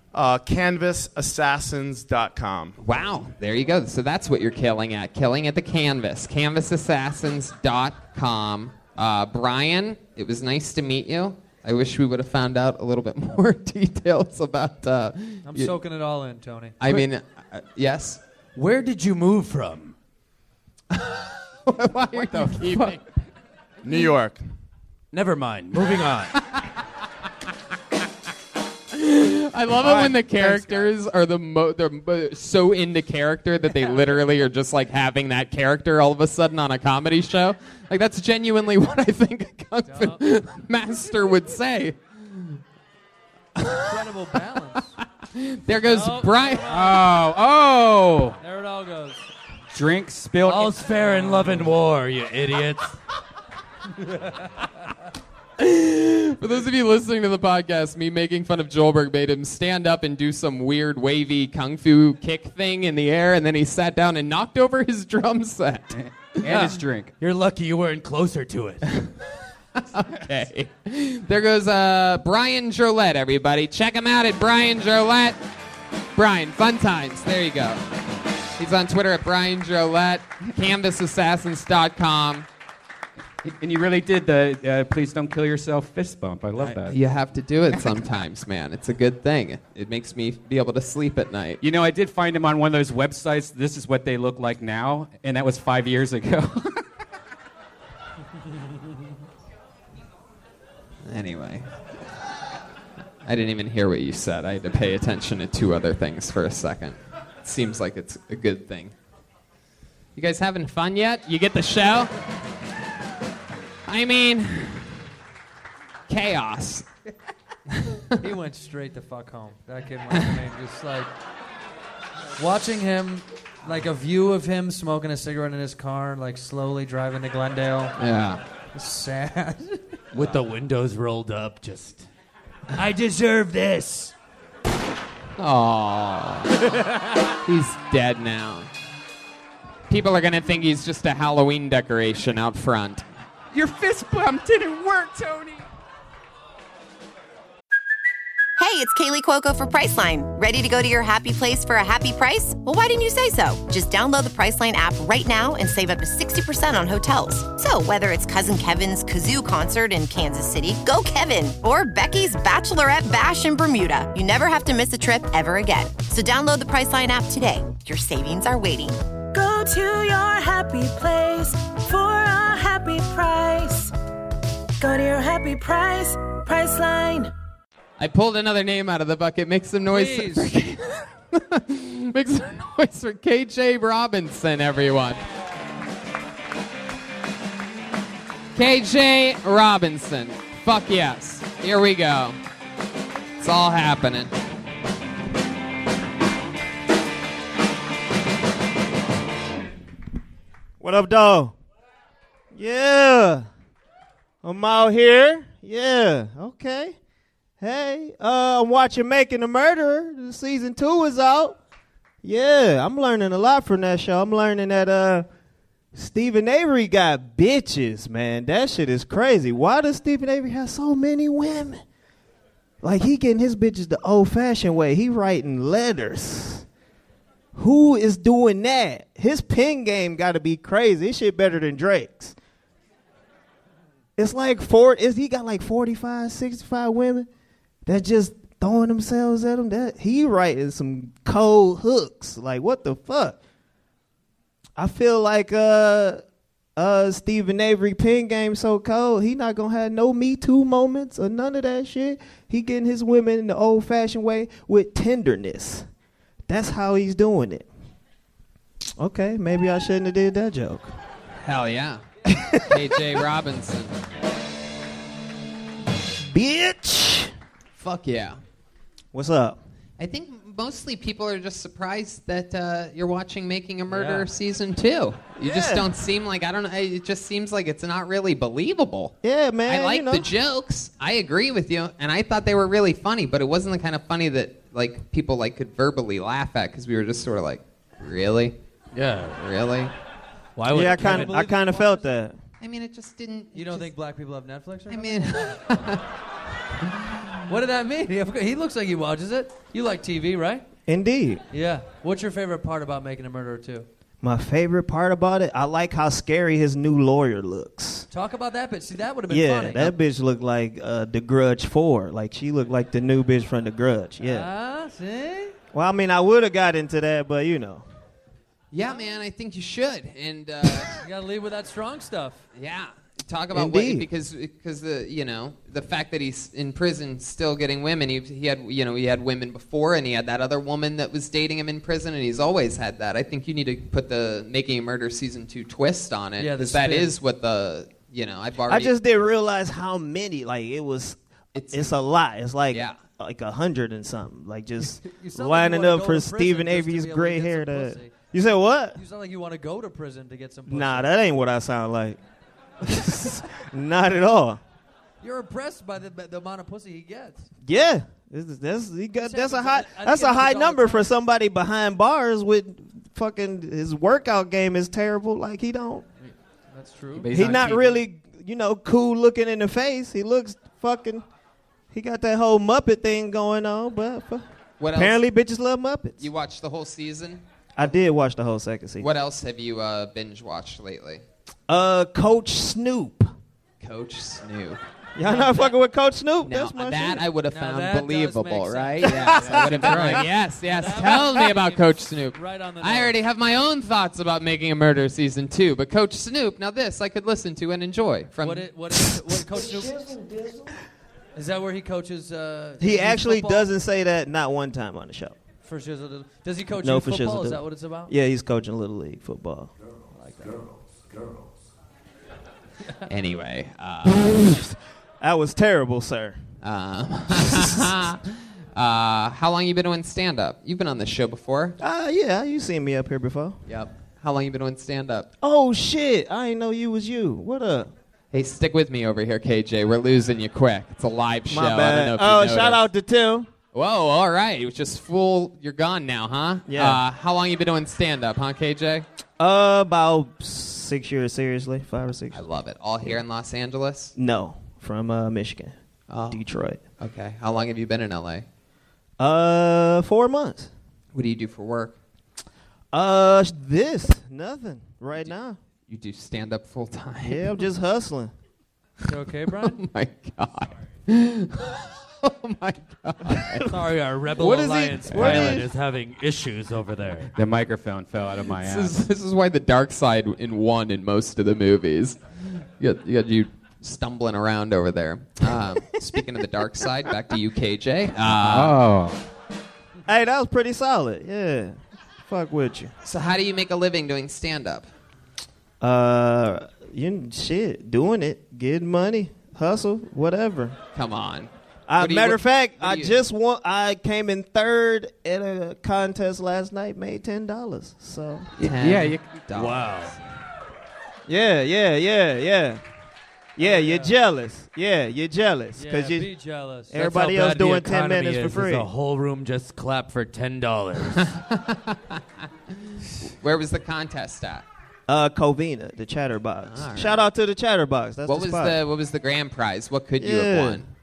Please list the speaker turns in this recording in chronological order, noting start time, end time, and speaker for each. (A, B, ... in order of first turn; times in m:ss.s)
0:00.1-0:02.8 A
0:02.8-0:15.7 B
0:15.4-0:16.8 C
0:16.8-0:18.2 B
0:18.5-0:19.9 D
0:20.9-0:23.0 B
0:23.8-0:24.4 A
0:25.1-0:26.3 D
0:28.9-0:42.6 B
0:29.8-0:30.9 A
0:39.8-0:40.2 C
0:43.8-0:44.9 C
0:45.3-0:46.7 B
0:45.8-0:47.0 C
0:46.7-0:48.4 E
0:48.4-0:49.2 C
0:49.7-0:51.5 E
0:50.4-0:53.0 D
0:50.5-0:51.5 C
0:54.0-0:54.5 C
0:55.6-1:06.6 B
1:06.0-1:07.1 E
1:06.5-1:08.8 D
1:09.8-1:15.4 B
1:16.1-1:17.8 B
1:18.6-1:22.5 B
1:23.4-1:27.0 E
1:26.6-1:31.6 B
1:31.6-1:36.8 E
1:41.0-1:41.7 B
1:43.2-1:48.9 B
1:50.2-1:52.1 B
1:53.8-1:55.0 B
1:56.1-1:56.9 B
1:57.7-1:58.0 B
1:58.2-2:01.1 C
2:02.4-2:08.0 C
2:08.0-2:08.4 B
2:08.7-2:09.8 C
2:10.1-2:12.1 D
2:12.8-2:14.1 D
2:15.4-2:16.6 B
2:17.3-2:18.7 B
2:19.9-2:23.0 B
2:23.5-2:25.6 E
2:28.6-2:49.0 F
2:49.3-2:53.9 G
2:54.8-2:57.3 G
2:58.0-3:05.2 B
2:59.9-3:00.5 C
3:08.5-3:12.4 B
3:13.4-3:14.3 B
3:20.8-3:21.5 H
3:22.5-3:23.5 H
3:24.4-3:27.0 H
3:27.6-3:31.6 H
3:32.2-3:35.3 H
3:35.9-3:41.8 H
3:42.8-3:46.6 H
3:47.5-3:52.3 H
3:54.2-3:57.3 H
3:57.8-4:03.4 H
4:04.8-4:06.2 H
4:06.8-4:15.9 H
4:16.5-4:17.7 H
4:19.0-4:20.9 H
4:21.4-4:22.0 B
4:22.3-4:22.8 H
4:22.7-4:23.9 B
4:26.2-4:27.3 H
4:27.8-4:28.4 B
4:29.1-4:29.6 H
4:30.0-4:48.6 B
4:33.9-4:34.3 C
4:35.4-4:35.9 H
4:39.2-4:40.3 H
4:48.9-4:49.4 D
4:49.3-4:49.9 B
4:50.6-4:51.3 D
4:50.6-4:52.1 C
4:50.7-4:52.4 H
4:52.6-4:53.9 B
4:53.5-4:55.6 C
4:54.9-4:56.0 B
4:57.5-5:00.6 C
5:00.9-5:01.4 H
5:01.5-5:03.8 C
5:04.2-5:08.0 H
5:08.1-5:09.9 C
5:09.3-5:14.5 H
5:14.2-5:15.5 C
5:15.7-5:17.8 H
5:18.7-5:21.0 B
5:21.0-5:22.4 C
5:22.6-5:38.9 B
5:23.5-5:24.1 H
5:36.4-5:37.1 C
5:38.7-5:41.2 H
5:41.5-5:42.0 B
5:41.7-5:49.0 H
5:42.7-5:43.0 B
5:45.0-5:48.2 C
5:48.9-5:51.1 C
5:50.7-5:52.2 H
5:52.8-5:54.6 H
5:55.2-5:57.5 C
5:57.6-6:06.0 H
5:59.2-6:01.1 C
6:06.7-6:07.4 C
6:07.1-6:08.0 E
6:07.3-6:11.2 H
6:11.9-6:14.4 H
6:14.8-6:15.2 B
6:14.9-6:16.2 H
6:16.2-6:17.4 B
6:17.8-6:19.1 H
6:19.0-6:21.2 B
6:21.7-6:23.3 H
6:23.8-6:24.8 B
6:25.2-6:27.2 H
6:25.2-6:25.7 C
6:26.4-6:39.1 B
6:27.5-6:33.2 C
6:29.0-6:30.2 H
6:29.8-6:30.2 E
6:38.4-6:40.2 C
6:41.4-6:43.7 C
6:42.8-6:45.4 H
6:45.6-6:48.1 C
6:46.8-6:49.7 H
6:50.2-6:50.6 C
6:53.1-6:54.4 B
6:54.3-6:56.4 H
6:56.6-7:01.8 B
7:01.8-7:03.6 H
7:03.7-7:05.3 B
7:05.4-7:07.9 H
7:08.3-7:12.8 B
7:11.5-7:13.5 H
7:13.7-7:19.0 B
7:16.7-7:17.0 H
7:19.4-7:22.4 H
7:22.3-7:24.1 B
7:24.2-7:25.7 H
7:26.1-7:26.4 B
7:26.3-7:26.8 H
7:27.0-7:28.4 B
7:29.2-7:30.7 H
7:31.1-7:32.0 B
7:32.9-7:35.6 H
7:35.9-7:37.6 B
7:37.2-7:38.3 H
7:39.1-7:39.8 C
7:39.6-7:43.6 B
7:43.4-7:43.7 H
7:43.7-7:47.3 D
7:43.7-7:45.6 C
7:44.4-7:45.7 H
7:47.3-7:49.0 E
7:48.6-7:52.2 B
7:52.8-7:58.8 B
7:58.3-7:59.2 E
8:00.1-8:02.9 H
8:03.0-8:04.9 B
8:05.8-8:10.8 H
8:10.9-8:13.2 B
8:11.9-8:18.5 H
8:18.6-8:20.1 B
8:18.7-8:19.5 E
8:19.5-8:20.2 D
8:21.3-8:22.8 H
8:23.6-8:26.3 H
8:23.6-8:24.1 C
8:25.8-8:27.3 C
8:26.9-8:28.9 H
8:27.0-8:31.3 D
8:31.2-8:32.2 B
8:32.7-8:34.6 B
8:35.1-8:38.8 H
8:36.7-8:37.2 B
8:38.2-8:40.8 B
8:40.2-8:40.8 H